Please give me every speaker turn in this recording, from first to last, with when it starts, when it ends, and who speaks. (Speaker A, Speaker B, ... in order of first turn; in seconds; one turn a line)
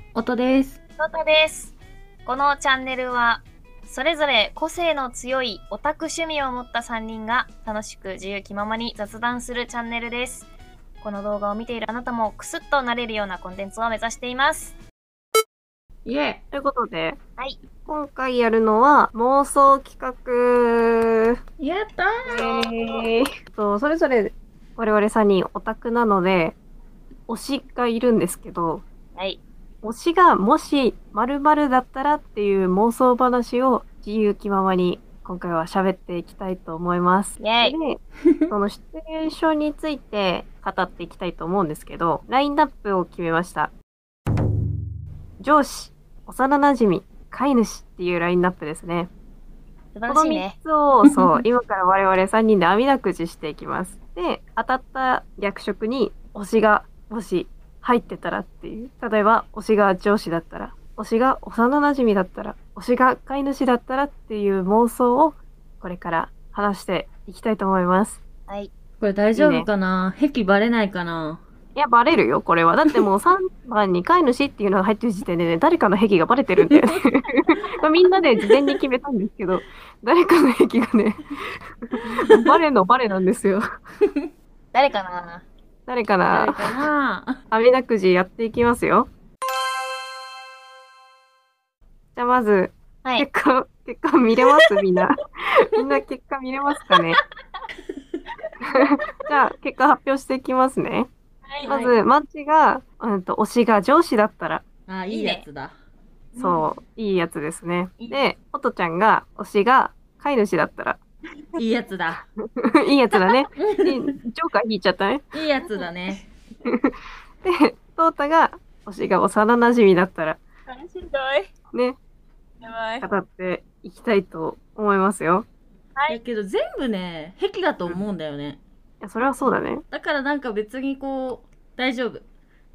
Speaker A: 0.1-0.8
Speaker B: 1.0-1.7
Speaker B: 2.3-10.5
Speaker B: 11.0-14.8
Speaker A: 16.1-16.4
Speaker C: 16.5-17.2
Speaker C: 17.9-21.4
Speaker A: 21.6-22.4
Speaker B: 22.3-23.0
Speaker C: 22.3-26.6
Speaker C: 27.3-28.8
Speaker B: 29.1-29.4
Speaker C: 29.8-43.7
Speaker B: 37.4-37.8
Speaker C: 45.4-49.1
Speaker B: 50.0-50.5
Speaker C: 50.1-68.2
Speaker A: 51.0-51.4
Speaker A: 69.0-71.4
Speaker C: 69.3-69.7
Speaker C: 71.8-83.6
Speaker A: 76.6-77.0
Speaker A: 78.4-78.8
Speaker A: 82.0-82.6
Speaker A: 84.0-84.3
Speaker B: 84.7-85.5
Speaker C: 85.9-86.7
Speaker A: 86.3-87.4
Speaker C: 87.5-89.1
Speaker C: 92.2-97.2
Speaker C: 98.7-101.1
Speaker B: 101.5-101.8
Speaker A: 101.6-102.0
Speaker C: 101.7-104.6
Speaker A: 104.9-105.7
Speaker B: 105.1-105.4
Speaker A: 106.4-106.7
Speaker C: 106.4-111.0
Speaker A: 111.6-112.2
Speaker C: 112.6-115.2
Speaker A: 113.6-114.0
Speaker A: 115.3-116.2
Speaker C: 116.7-116.9
Speaker C: 117.4-120.4
Speaker B: 120.7-121.5
Speaker C: 121.7-122.0
Speaker B: 122.6-123.1
Speaker C: 123.0-125.5
Speaker A: 126.1-128.6
Speaker C: 129.0-129.8
Speaker A: 129.9-132.2